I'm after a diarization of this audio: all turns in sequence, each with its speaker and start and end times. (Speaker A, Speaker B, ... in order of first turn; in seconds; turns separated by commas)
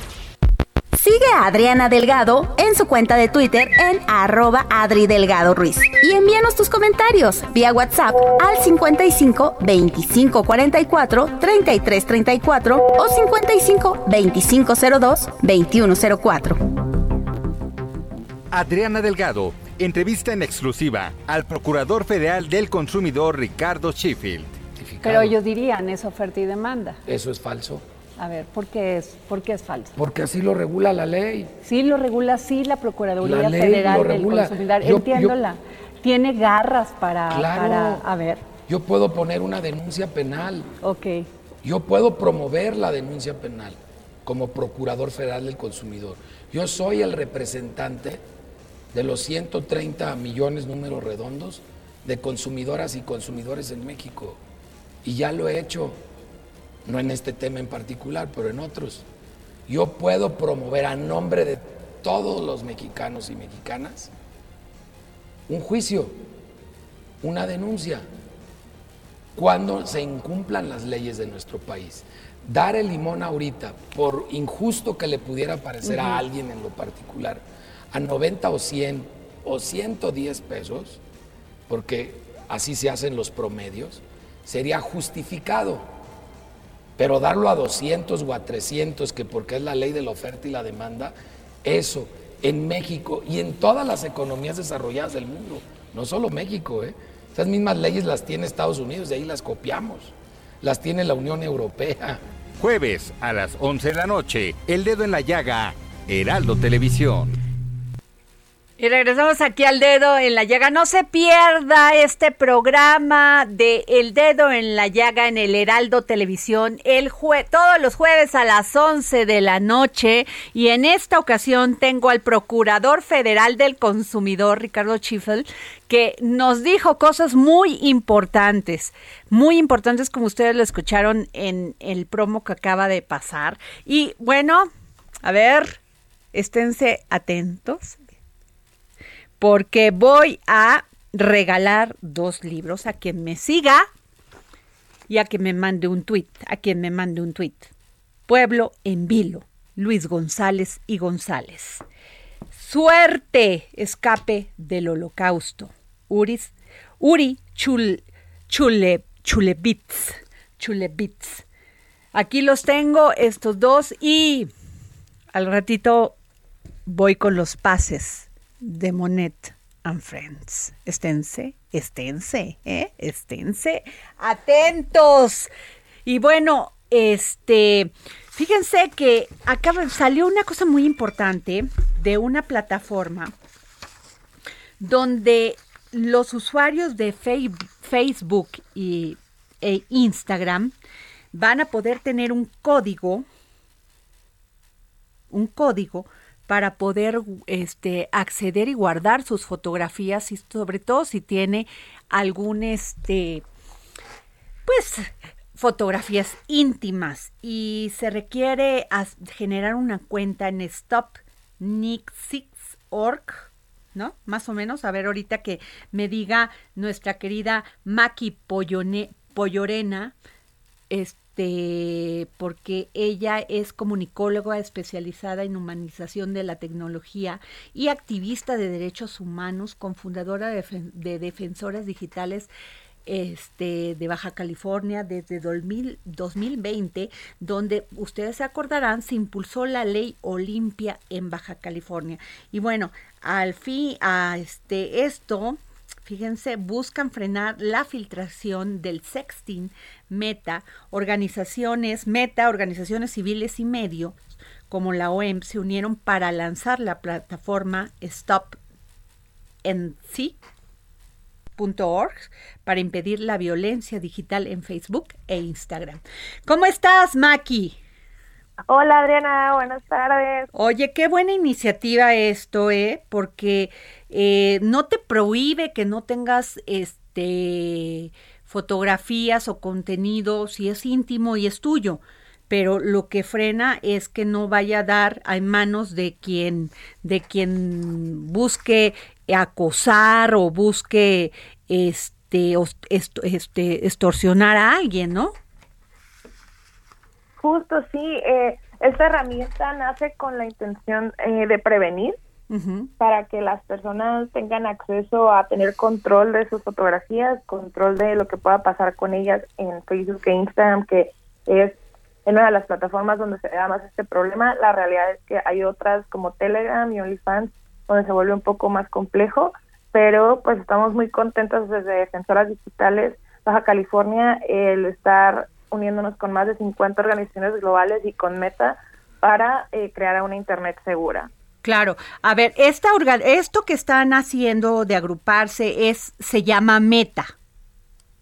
Speaker A: 0.9-16.8, Speaker B: 18.5-24.7, Speaker C: 24.8-25.3, Speaker D: 25.0-27.0, Speaker C: 27.1-27.9, Speaker D: 28.2-29.9, Speaker C: 30.0-31.5, Speaker D: 31.6-38.5, Speaker C: 33.2-35.4, Speaker C: 37.3-38.1, Speaker C: 38.7-40.7, Speaker D: 40.8-41.3, Speaker C: 41.6-48.2, Speaker C: 48.9-54.4, Speaker C: 55.0-56.0, Speaker C: 56.9-59.0, Speaker C: 59.7-64.1, Speaker C: 65.5-66.1, Speaker C: 67.2-68.1, Speaker C: 69.3-81.0, Speaker D: 75.8-76.2, Speaker C: 81.7-85.9, Speaker C: 87.0-102.2, Speaker B: 102.6-107.4, Speaker D: 108.8-134.7, Speaker D: 135.2-135.8, Speaker D: 136.3-138.0, Speaker D: 139.4-143.9, Speaker D: 145.1-147.7, Speaker D: 148.3-151.8, Speaker D: 152.5-161.4, Speaker D: 162.1-164.5, Speaker D: 165.3-166.2, Speaker D: 166.9-175.5, Speaker D: 176.1-183.3, Speaker D: 184.8-190.7, Speaker D: 191.3-193.3, Speaker D: 195.3-203.4, Speaker D: 204.7-220.2, Speaker D: 220.9-232.5, Speaker D: 233.1-258.6, Speaker D: 259.6-260.4, Speaker D: 261.6-267.8, Speaker E: 268.7-270.5, Speaker D: 270.5-295.3, Speaker E: 297.4-302.2, Speaker D: 302.5-302.9, Speaker E: 303.0-331.3, Speaker D: 331.6-337.3